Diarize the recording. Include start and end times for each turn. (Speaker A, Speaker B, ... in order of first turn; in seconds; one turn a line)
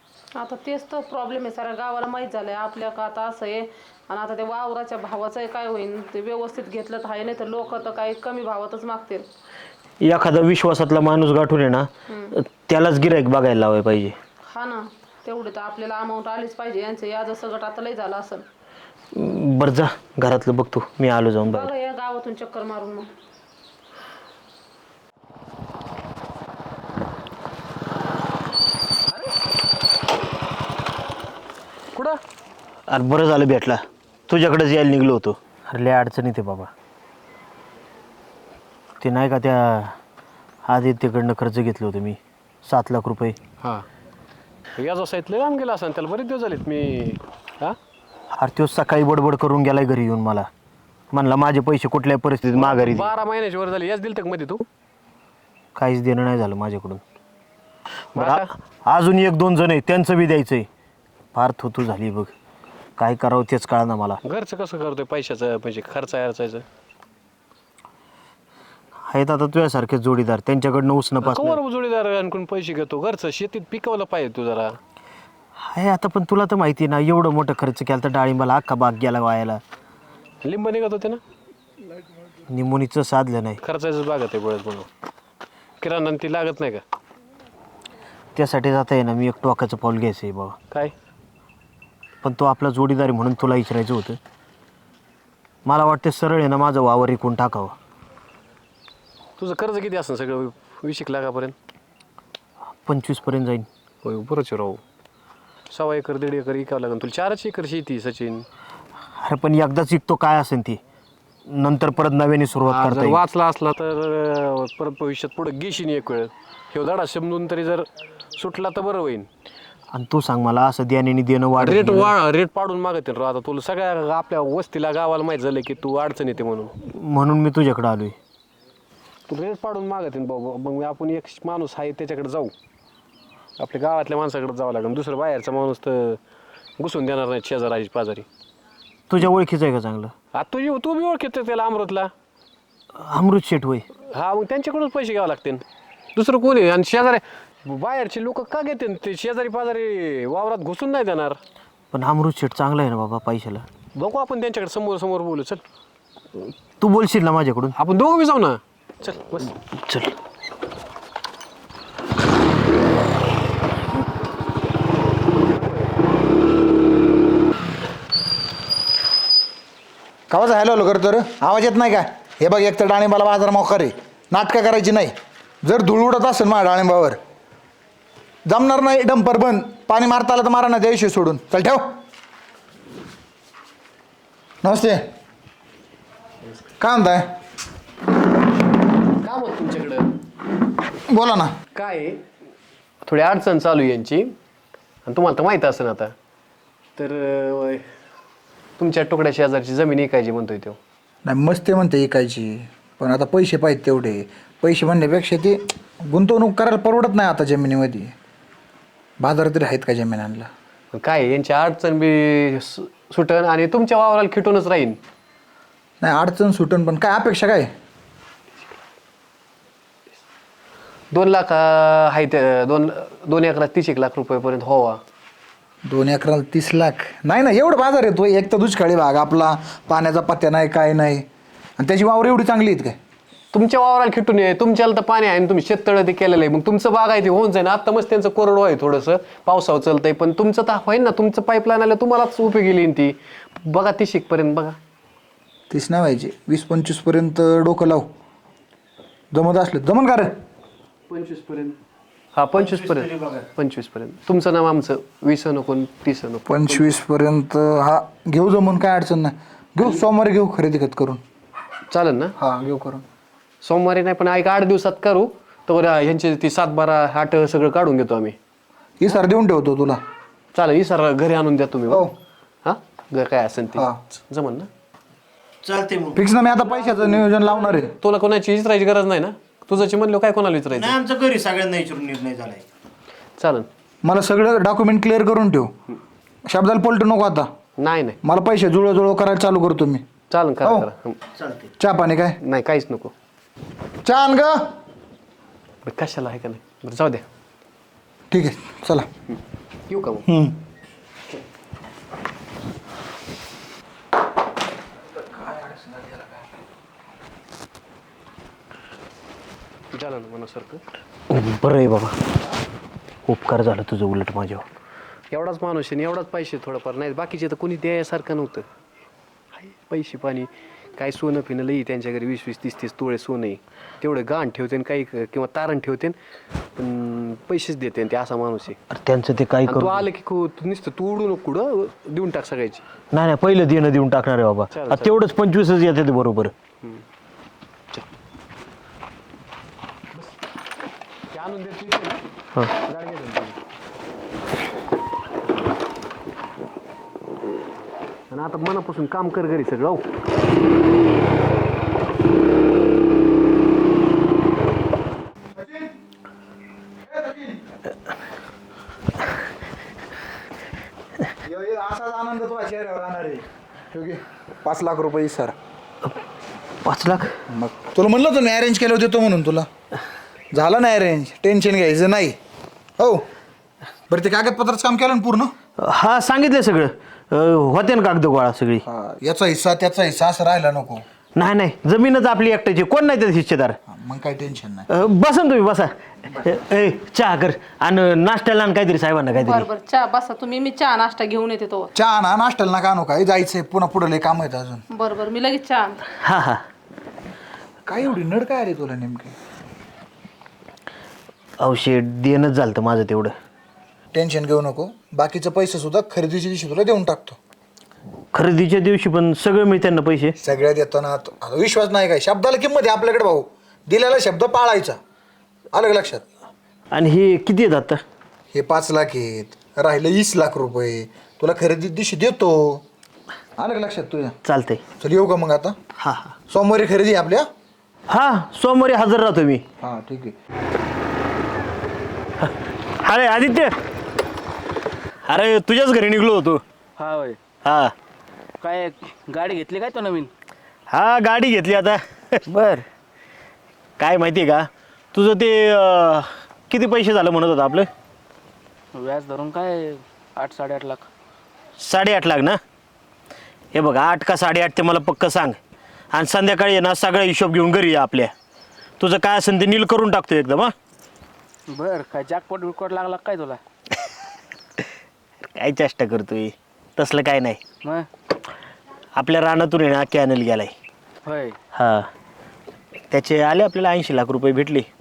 Speaker A: 0.4-9.2
Speaker B: 10.0-14.2
Speaker A: 14.5-18.4
Speaker B: 19.1-21.7
Speaker A: 21.5-23.1
Speaker C: 31.9-32.2
Speaker B: 32.9-36.7
Speaker B: 39.0-39.9
Speaker B: 40.7-43.4
Speaker C: 44.8-47.8
Speaker B: 48.4-50.5
Speaker B: 51.1-53.1
Speaker C: 52.5-54.7
Speaker B: 55.8-57.0
Speaker B: 58.1-60.7
Speaker C: 58.2-58.4
Speaker B: 61.3-62.3
Speaker B: 63.0-64.2
Speaker C: 64.2-66.7
Speaker B: 69.1-71.6
Speaker C: 71.2-74.8
Speaker B: 75.7-79.6
Speaker C: 80.4-81.2
Speaker B: 82.5-83.6
Speaker C: 83.6-84.9
Speaker C: 85.8-86.8
Speaker B: 88.3-90.5
Speaker B: 92.2-94.2
Speaker B: 95.7-97.8
Speaker C: 99.4-101.5
Speaker B: 102.8-103.7
Speaker C: 104.0-104.8
Speaker C: 105.7-108.5
Speaker B: 109.2-110.8
Speaker B: 111.5-113.2
Speaker C: 112.7-119.3
Speaker B: 119.9-122.2
Speaker C: 121.6-126.7
Speaker B: 126.8-128.2
Speaker C: 129.3-132.5
Speaker C: 133.6-136.2
Speaker C: 136.8-138.3
Speaker B: 139.1-140.1
Speaker C: 140.3-142.1
Speaker B: 143.0-143.8
Speaker C: 144.1-145.6
Speaker C: 146.2-151.4
Speaker B: 151.9-153.7
Speaker C: 154.0-155.6
Speaker B: 156.8-157.8
Speaker C: 157.8-159.5
Speaker B: 159.7-160.1
Speaker C: 165.5-165.9
Speaker D: 170.3-175.1
Speaker D: 175.6-177.2
Speaker D: 178.5-181.8
Speaker D: 184.6-185.0
Speaker D: 186.8-187.3
Speaker C: 189.2-190.1
Speaker D: 191.1-191.5
Speaker C: 191.8-192.2
Speaker C: 193.0-194.3
Speaker C: 195.1-196.1
Speaker C: 197.0-197.8
Speaker C: 198.8-200.8
Speaker D: 201.3-208.1
Speaker D: 209.2-210.5
Speaker C: 210.9-215.0
Speaker D: 216.0-217.7
Speaker C: 221.1-225.0
Speaker D: 225.9-231.3
Speaker D: 231.8-233.0
Speaker C: 233.5-244.8
Speaker D: 245.7-248.1
Speaker D: 249.3-250.3
Speaker C: 251.1-251.8
Speaker C: 252.3-256.9
Speaker B: 252.5-253.5
Speaker D: 256.5-261.2
Speaker C: 261.9-262.3
Speaker D: 262.4-263.0
Speaker C: 263.6-268.4
Speaker D: 269.0-270.0
Speaker C: 270.5-272.1
Speaker C: 272.6-274.7
Speaker B: 275.6-276.2
Speaker D: 276.1-277.9
Speaker C: 276.7-281.0
Speaker B: 280.7-282.6
Speaker C: 283.4-283.7
Speaker D: 284.0-285.7
Speaker D: 286.5-287.5
Speaker C: 287.8-288.2
Speaker D: 288.2-290.0
Speaker C: 290.3-291.2
Speaker D: 290.6-290.9
Speaker B: 291.4-291.7
Speaker D: 291.8-292.4
Speaker C: 292.4-293.1
Speaker D: 294.1-294.5
Speaker C: 295.9-297.2
Speaker D: 298.3-299.1
Speaker C: 299.9-300.2
Speaker D: 300.3-300.6
Speaker D: 305.2-306.4
Speaker C: 309.9-310.8
Speaker B: 311.3-312.1
Speaker B: 313.3-314.6
Speaker C: 315.3-318.6
Speaker C: 319.5-326.2
Speaker C: 326.8-328.8
Speaker B: 328.9-330.1
Speaker C: 329.6-332.8
Speaker B: 333.1-336.5
Speaker C: 334.7-335.1
Speaker C: 341.3-342.2
Speaker C: 342.8-343.6
Speaker C: 348.3-350.0
Speaker D: 355.5-355.9
Speaker D: 357.0-357.6
Speaker D: 361.4-365.5
Speaker B: 366.9-367.3
Speaker D: 367.5-369.7
Speaker D: 370.5-372.4
Speaker D: 374.1-375.5
Speaker B: 375.8-378.9
Speaker D: 378.9-381.0
Speaker B: 381.4-383.8
Speaker D: 383.9-384.9
Speaker B: 384.9-389.7
Speaker A: 389.4-391.9
Speaker D: 391.9-394.8
Speaker A: 394.9-396.0
Speaker B: 396.2-396.6
Speaker D: 397.9-399.4
Speaker B: 401.6-403.3
Speaker D: 404.1-407.4
Speaker B: 408.3-410.4
Speaker D: 410.4-415.0
Speaker D: 415.7-416.2
Speaker B: 416.9-418.0
Speaker D: 418.5-422.8
Speaker D: 423.6-424.4
Speaker B: 424.4-424.8
Speaker D: 425.0-425.8
Speaker B: 426.0-426.3
Speaker D: 426.5-427.5
Speaker B: 428.1-429.6
Speaker D: 429.8-430.3
Speaker B: 433.0-433.7
Speaker B: 435.3-436.6
Speaker E: 437.0-437.4
Speaker B: 437.6-437.9
Speaker E: 438.6-440.3
Speaker B: 440.9-442.4
Speaker E: 442.5-442.9
Speaker B: 444.0-447.9
Speaker E: 448.9-451.1
Speaker B: 451.8-452.6
Speaker B: 453.7-455.6
Speaker B: 456.1-458.3
Speaker B: 459.0-460.7
Speaker E: 461.7-463.6
Speaker B: 465.5-467.6
Speaker E: 467.8-468.1
Speaker B: 469.1-470.7
Speaker E: 471.2-471.6
Speaker B: 471.7-472.1
Speaker B: 473.1-474.9